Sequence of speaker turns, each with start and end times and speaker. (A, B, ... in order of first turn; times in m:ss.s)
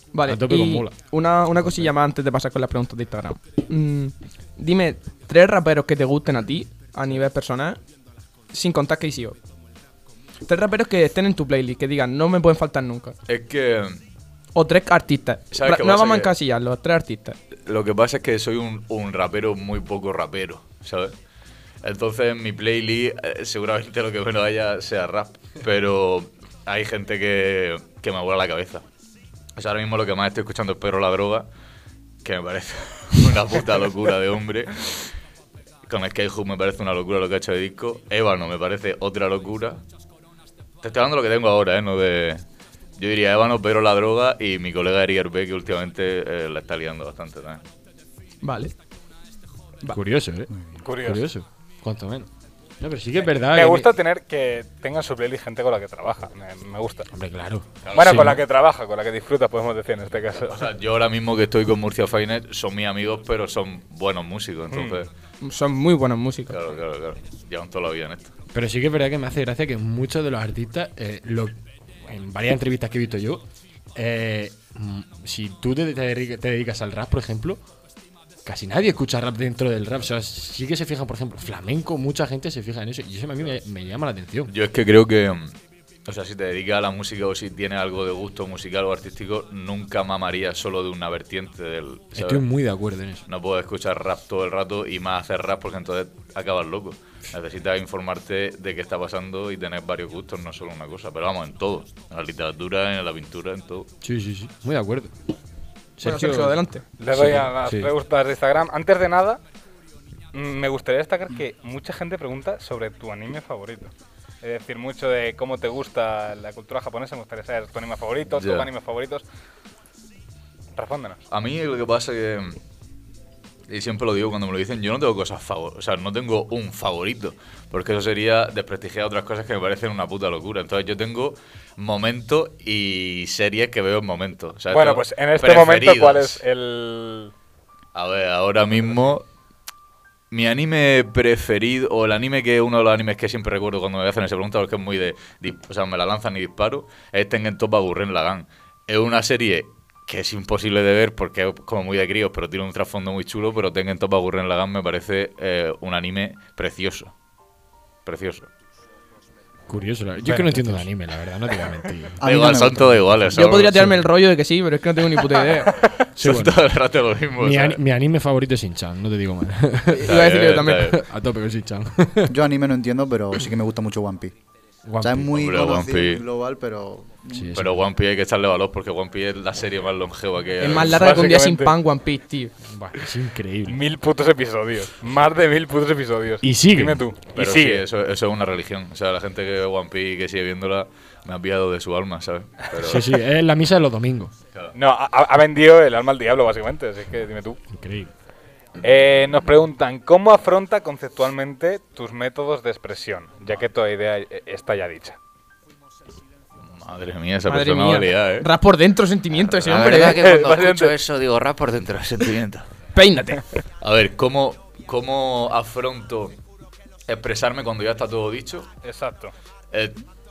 0:00.1-0:07.8 A
0:00.2-0:00.9 B
0:08.5-0:09.4 A
0:10.4-0:13.1 A
0:13.3-0:14.0 C
0:14.5-0:17.4 A
0:15.5-0:16.3 C
0:17.6-0:21.1 C
0:21.8-0:28.8 C
0:29.6-0:31.5 C
0:32.2-0:35.1 C
0:35.8-0:39.8 C
0:40.8-0:42.4 C
0:43.0-0:47.6 C
0:48.4-0:48.7 A
0:49.9-0:52.3 B
0:50.8-0:51.3 D
0:52.8-0:53.9 B
0:53.4-0:57.1 D
0:57.1-0:58.4 B
0:57.8-0:58.3 C
0:57.9-1:00.7 D
1:00.4-1:05.1 C
1:04.7-1:05.0 D
1:05.4-1:06.6 A
1:06.5-1:08.3 C
1:08.5-1:17.6 B
1:18.4-1:24.5 B
1:24.5-1:32.4 C
1:32.1-1:33.2 B
1:33.2-1:43.9 C
1:44.0-1:45.1 B
1:46.0-1:47.9 B
1:46.0-1:46.8 A
1:47.0-1:49.4 D
1:50.3-1:53.9 D
1:54.4-1:59.2 D
1:58.3-1:58.7 C
2:00.8-2:01.2 D
2:01.3-2:02.6 C
2:03.7-2:16.4 C
2:14.7-2:17.3 D
2:17.9-2:19.2 C
2:20.3-2:37.1 C
2:38.0-2:38.5 C
2:39.7-2:42.2 B
2:42.2-2:43.0 E
2:42.2-2:44.0 C
2:43.3-2:45.8 A
2:46.2-2:46.6 B
2:46.2-2:47.8 C
2:47.4-2:52.3 B
2:49.9-2:50.9 A
2:50.0-2:51.0 C
2:52.3-2:54.3 E
2:54.8-2:55.4 B
2:55.0-2:57.5 E
2:55.3-2:56.2 C
2:57.3-2:57.8 B
2:57.5-3:01.1 C
3:00.6-3:02.5 A
3:00.8-3:01.8 D
3:02.6-3:03.8 B
3:03.7-3:07.8 D
3:06.4-3:07.0 B
3:07.3-3:13.2 C
3:12.8-3:14.3 B
3:14.7-3:17.6 D
3:17.7-3:18.1 B
3:18.8-3:25.2 D
3:26.6-3:28.5 C
3:27.5-3:30.3 A
3:29.6-3:32.7 C
3:30.0-3:30.9 D
3:32.9-3:33.4 A
3:33.8-3:36.4 C
3:37.1-3:38.7 C
3:38.8-3:39.3 D
3:39.7-3:40.0 C